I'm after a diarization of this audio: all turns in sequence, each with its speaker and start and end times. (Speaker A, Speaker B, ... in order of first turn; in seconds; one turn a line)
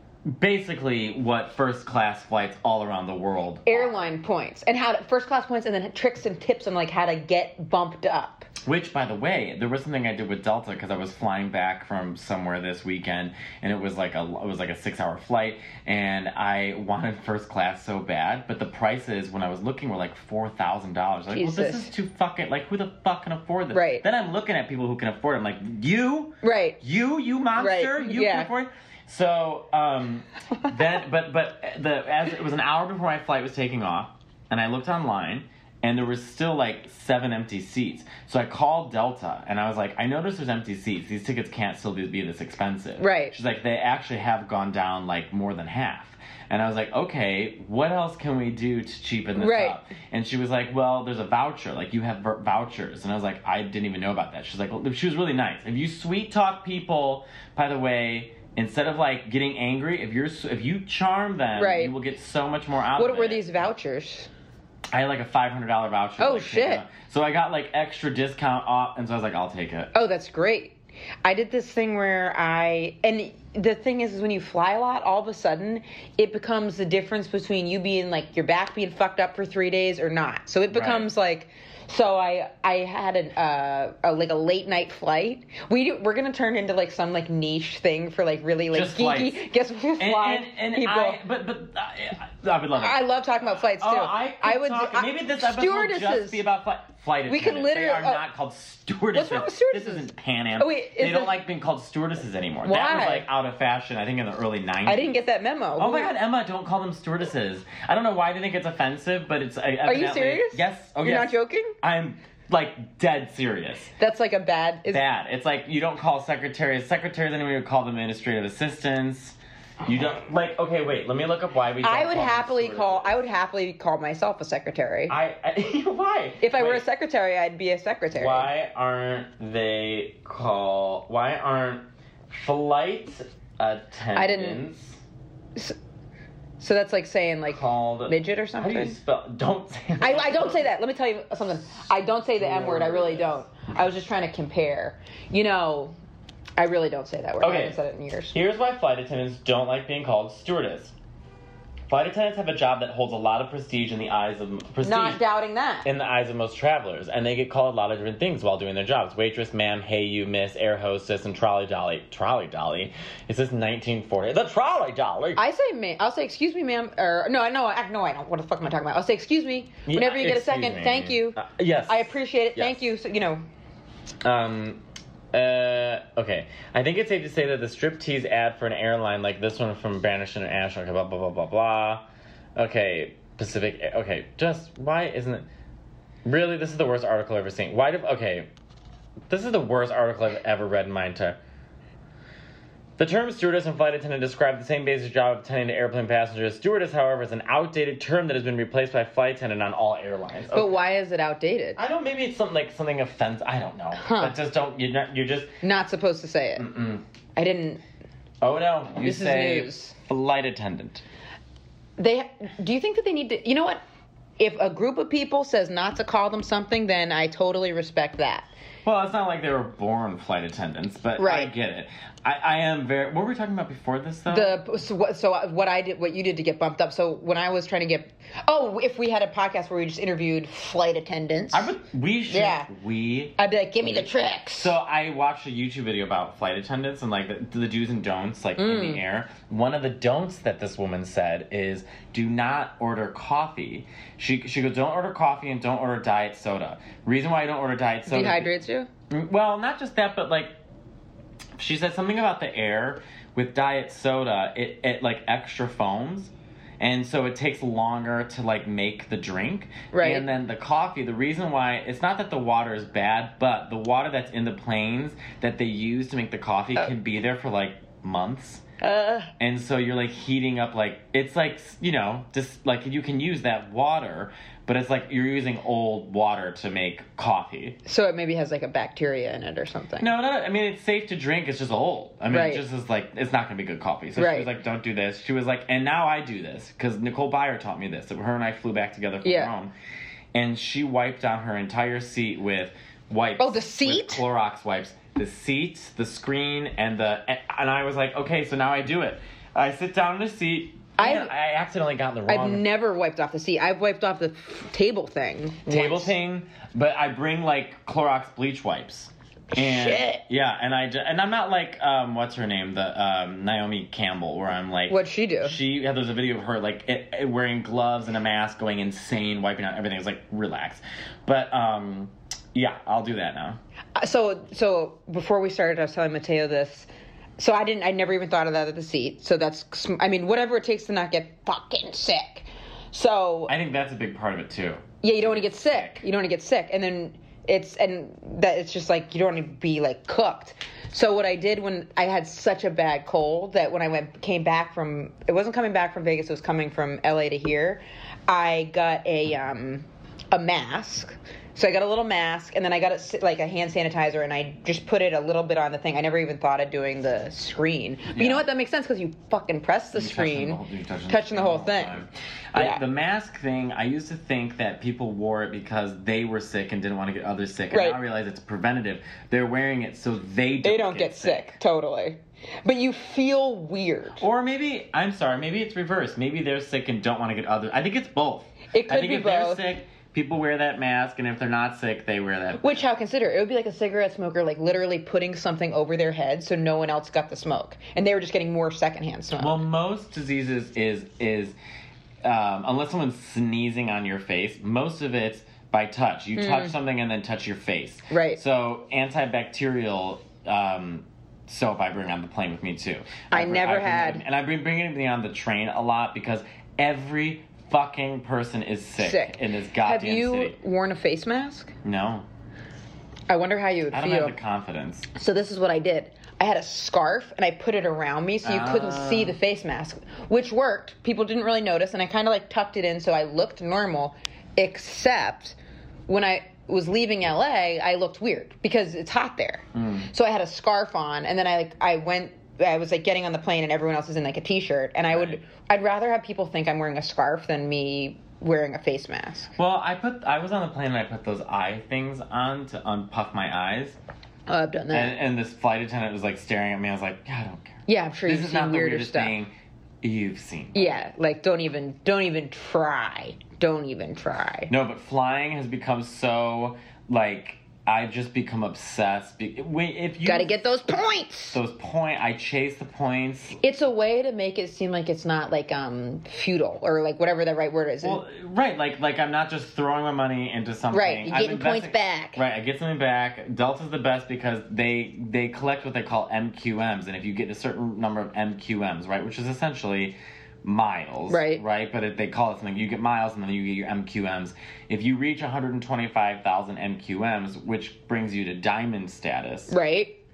Speaker A: 0.2-3.9
Speaker B: 3.6-8.5
Speaker A: 8.6-63.5
Speaker B: 21.3-21.9
Speaker B: 23.7-24.0
Speaker B: 26.4-26.8
Speaker B: 27.5-28.5
Speaker B: 43.0-43.3
Speaker B: 49.4-49.8
Speaker B: 61.5-61.9
Speaker B: 63.0-64.3
Speaker A: 64.9-69.9
Speaker B: 66.2-66.8
Speaker B: 69.9-91.2
Speaker A: 80.7-81.1
Speaker A: 88.7-105.1
Speaker B: 92.7-96.4
Speaker B: 97.3-98.2
Speaker B: 99.1-101.4
Speaker B: 102.7-103.3
Speaker B: 104.8-106.1
Speaker A: 105.8-113.9
Speaker B: 109.8-111.7
Speaker B: 114.0-115.0
Speaker A: 114.9-123.1
Speaker B: 121.8-125.2
Speaker A: 125.1-126.8
Speaker B: 126.4-128.5
Speaker A: 128.1-135.0
Speaker B: 134.1-134.6
Speaker B: 136.6-138.9
Speaker A: 137.5-140.7
Speaker B: 140.0-145.9
Speaker A: 142.4-143.4
Speaker B: 146.6-148.3
Speaker A: 147.4-147.8
Speaker A: 148.3-150.9
Speaker A: 151.9-155.2
Speaker B: 154.8-155.9
Speaker A: 155.8-165.4
Speaker B: 165.4-173.4
Speaker A: 169.8-172.8
Speaker A: 174.2-185.4
Speaker A: 186.2-188.5
Speaker A: 189.3-191.4
Speaker A: 193.0-200.8
Speaker B: 200.5-201.8
Speaker A: 201.8-205.5
Speaker B: 203.9-204.3
Speaker B: 205.6-206.7
Speaker A: 206.6-207.0
Speaker B: 207.3-207.8
Speaker A: 208.4-211.0
Speaker B: 209.0-209.9
Speaker B: 212.0-213.8
Speaker B: 214.4-218.5
Speaker A: 218.8-224.6
Speaker B: 221.2-221.5
Speaker B: 224.3-231.7
Speaker A: 231.5-248.5
Speaker B: 232.3-232.7
Speaker B: 233.4-234.7
Speaker B: 238.6-239.0
Speaker B: 248.1-248.9
Speaker A: 249.1-250.6
Speaker A: 251.6-268.6
Speaker B: 259.9-260.3
Speaker B: 268.8-269.3
Speaker A: 269.4-277.8
Speaker B: 277.8-280.1
Speaker A: 280.0-289.7
Speaker B: 282.3-282.6
Speaker B: 284.2-284.5
Speaker B: 289.2-289.5
Speaker A: 290.3-302.7
Speaker B: 293.4-294.2
Speaker B: 301.0-301.3
Speaker B: 302.3-306.1
Speaker A: 305.7-323.6
Speaker B: 309.5-310.2
Speaker B: 314.9-315.6
Speaker B: 323.9-333.5
Speaker A: 333.5-336.0
Speaker B: 335.0-361.9
Speaker A: 358.1-358.4
Speaker A: 359.9-371.5
Speaker B: 362.5-362.8
Speaker B: 367.7-368.0
Speaker B: 370.6-374.2
Speaker A: 374.2-382.8
Speaker B: 378.7-379.6
Speaker B: 382.6-389.6
Speaker A: 389.4-391.6
Speaker A: 392.2-410.6
Speaker B: 396.4-396.7
Speaker B: 398.1-398.4
Speaker B: 403.3-404.2
Speaker B: 409.0-411.7
Speaker A: 411.8-412.3
Speaker B: 413.3-414.4
Speaker A: 413.9-415.1
Speaker B: 415.1-425.6
Speaker A: 418.4-419.4
Speaker B: 426.1-439.5
Speaker A: 429.7-430.1
Speaker A: 435.1-435.4
Speaker A: 439.6-444.0
Speaker B: 444.5-445.2
Speaker A: 444.9-451.0
Speaker B: 447.9-449.4
Speaker B: 450.7-454.7
Speaker A: 454.7-460.6
Speaker B: 460.2-461.6
Speaker A: 461.5-463.6
Speaker B: 463.6-468.2
Speaker A: 468.0-489.7
Speaker B: 470.9-472.4
Speaker B: 481.3-481.6
Speaker B: 489.7-490.2